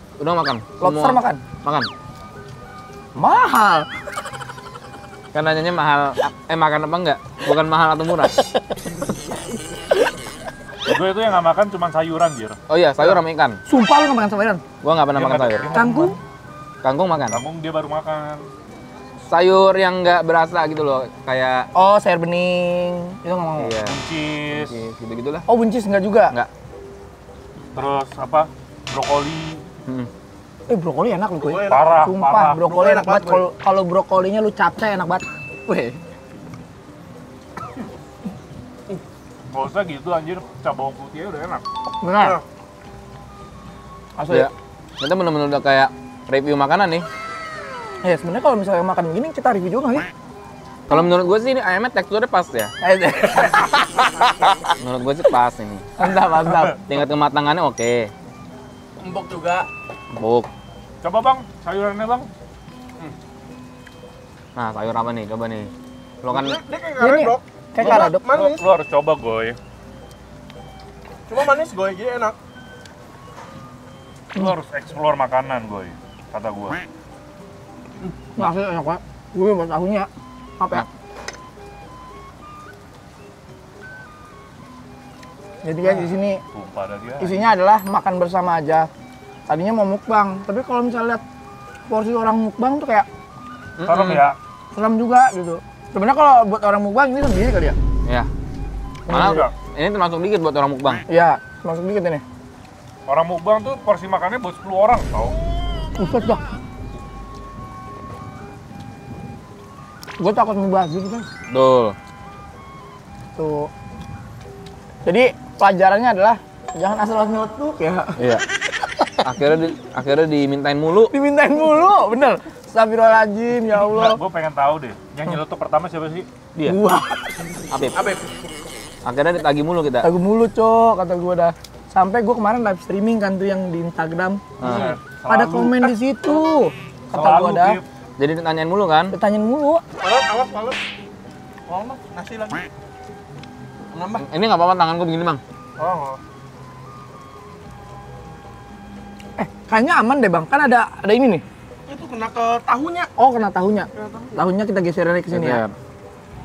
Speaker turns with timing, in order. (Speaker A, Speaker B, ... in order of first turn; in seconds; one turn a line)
Speaker A: 0.2-1.9
Speaker B: 0.8-1.4
Speaker B: 3.2-3.9
Speaker A: 5.3-8.4
Speaker C: 10.9-12.6
Speaker A: 12.7-13.6
Speaker B: 13.7-14.6
Speaker A: 14.8-15.8
Speaker C: 15.2-16.2
Speaker B: 15.7-16.2
Speaker A: 16.8-17.4
Speaker C: 17.3-18.4
Speaker A: 19.3-21.7
Speaker B: 21.8-23.7
Speaker A: 23.6-25.5
Speaker C: 23.8-24.8
Speaker B: 25.5-26.3
Speaker C: 27.7-29.6
Speaker B: 30.7-36.0
Speaker D: 31.4-33.5
Speaker C: 31.7-32.6
Speaker C: 39.5-41.6
Speaker B: 42.0-42.4
Speaker B: 44.2-44.5
Speaker A: 44.3-47.1
Speaker B: 48.0-50.1
Speaker A: 50.9-52.7
Speaker B: 52.8-54.2
Speaker A: 54.8-55.9
Speaker B: 56.0-56.8
Speaker A: 56.9-58.1
Speaker D: 59.0-59.7
Speaker A: 60.1-60.5
Speaker C: 61.0-62.3
Speaker A: 64.6-65.7
Speaker A: 66.2-66.6
Speaker D: 66.3-68.7
Speaker B: 67.0-68.2
Speaker C: 67.8-69.6
Speaker D: 71.3-72.4
Speaker C: 74.4-76.8
Speaker B: 78.4-80.1
Speaker B: 80.6-80.9
Speaker B: 85.6-86.4
Speaker C: 85.8-87.4
Speaker B: 87.2-88.9
Speaker B: 89.5-91.2
Speaker B: 91.9-93.1
Speaker A: 93.8-94.3
Speaker C: 93.8-94.4
Speaker B: 94.7-97.8
Speaker B: 99.1-99.5
Speaker C: 99.1-99.5
Speaker A: 99.1-101.0
Speaker B: 101.1-102.2
Speaker C: 103.1-105.4
Speaker B: 106.0-106.4
Speaker B: 110.2-111.3
Speaker A: 111.5-112.0
Speaker B: 113.4-113.7
Speaker B: 115.0-118.2
Speaker A: 118.2-118.4
Speaker A: 119.2-121.1
Speaker B: 121.1-124.2
Speaker C: 123.7-126.3
Speaker B: 126.6-127.2
Speaker A: 127.7-128.0
Speaker D: 127.9-128.3
Speaker A: 129.1-130.1
Speaker B: 130.0-134.5
Speaker C: 134.6-135.9
Speaker A: 134.6-134.9
Speaker B: 135.3-137.8
Speaker C: 137.1-137.9
Speaker A: 138.2-139.2
Speaker B: 139.1-139.8
Speaker D: 140.0-140.8
Speaker D: 141.7-142.7
Speaker D: 143.9-144.3
Speaker A: 144.2-145.4
Speaker D: 145.8-146.2
Speaker B: 149.4-151.4
Speaker D: 151.9-153.1
Speaker B: 153.2-155.6
Speaker A: 155.3-155.7